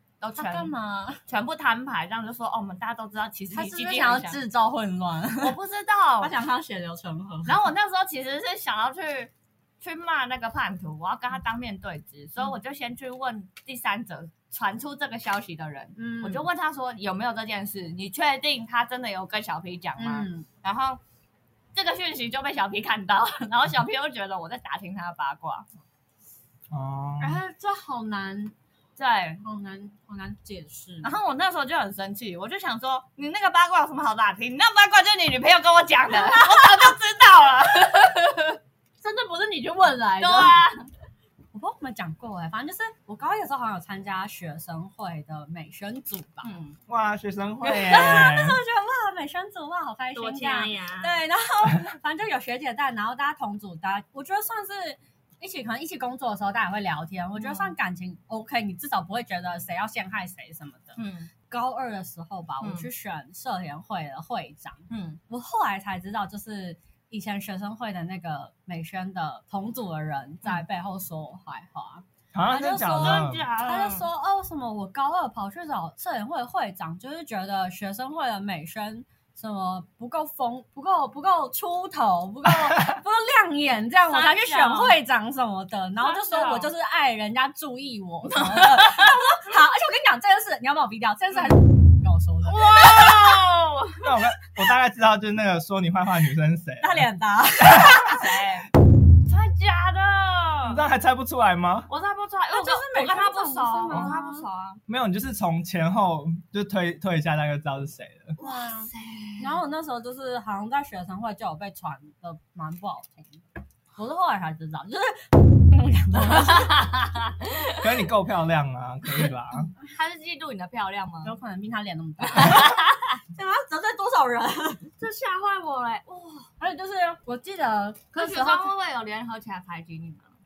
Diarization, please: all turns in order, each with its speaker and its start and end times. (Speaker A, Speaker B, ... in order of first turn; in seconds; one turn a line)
Speaker A: 0.2-0.7
Speaker B: 0.4-1.2
Speaker A: 1.3-4.4
Speaker B: 3.5-5.5
Speaker A: 5.4-6.3
Speaker B: 6.2-7.6
Speaker A: 7.5-21.0
Speaker B: 15.9-16.4
Speaker B: 20.0-20.5
Speaker A: 21.7-25.7
Speaker C: 26.7-27.4
Speaker B: 27.2-28.5
Speaker A: 29.0-29.4
Speaker B: 29.4-31.1
Speaker A: 31.0-38.6
Speaker B: 36.2-36.6
Speaker B: 39.0-40.6
Speaker A: 40.2-40.9
Speaker B: 41.5-46.5
Speaker A: 46.4-46.8
Speaker C: 46.9-48.6
Speaker B: 47.7-92.7
Speaker A: 50.1-51.1
Speaker A: 57.4-57.8
Speaker A: 61.0-61.3
Speaker A: 62.6-62.9
Speaker A: 64.9-65.2
Speaker C: 72.3-73.5
Speaker A: 73.0-74.1
Speaker A: 84.1-85.0
Speaker A: 86.0-86.7
Speaker A: 88.5-89.0
Speaker A: 92.4-94.2
Speaker C: 94.0-97.1
Speaker B: 96.8-98.2
Speaker A: 97.9-98.7
Speaker A: 99.2-100.8
Speaker C: 100.7-101.9
Speaker A: 101.9-104.8
Speaker B: 102.5-104.5
Speaker C: 104.9-108.3
Speaker A: 108.4-109.6
Speaker B: 108.4-113.4
Speaker B: 114.0-116.9
Speaker A: 116.4-117.8
Speaker C: 117.8-119.7
Speaker A: 119.8-121.3
Speaker B: 121.2-122.8
Speaker A: 122.3-123.2
Speaker B: 123.3-124.9
Speaker A: 125.0-126.5
Speaker B: 126.6-128.7
Speaker A: 128.1-130.3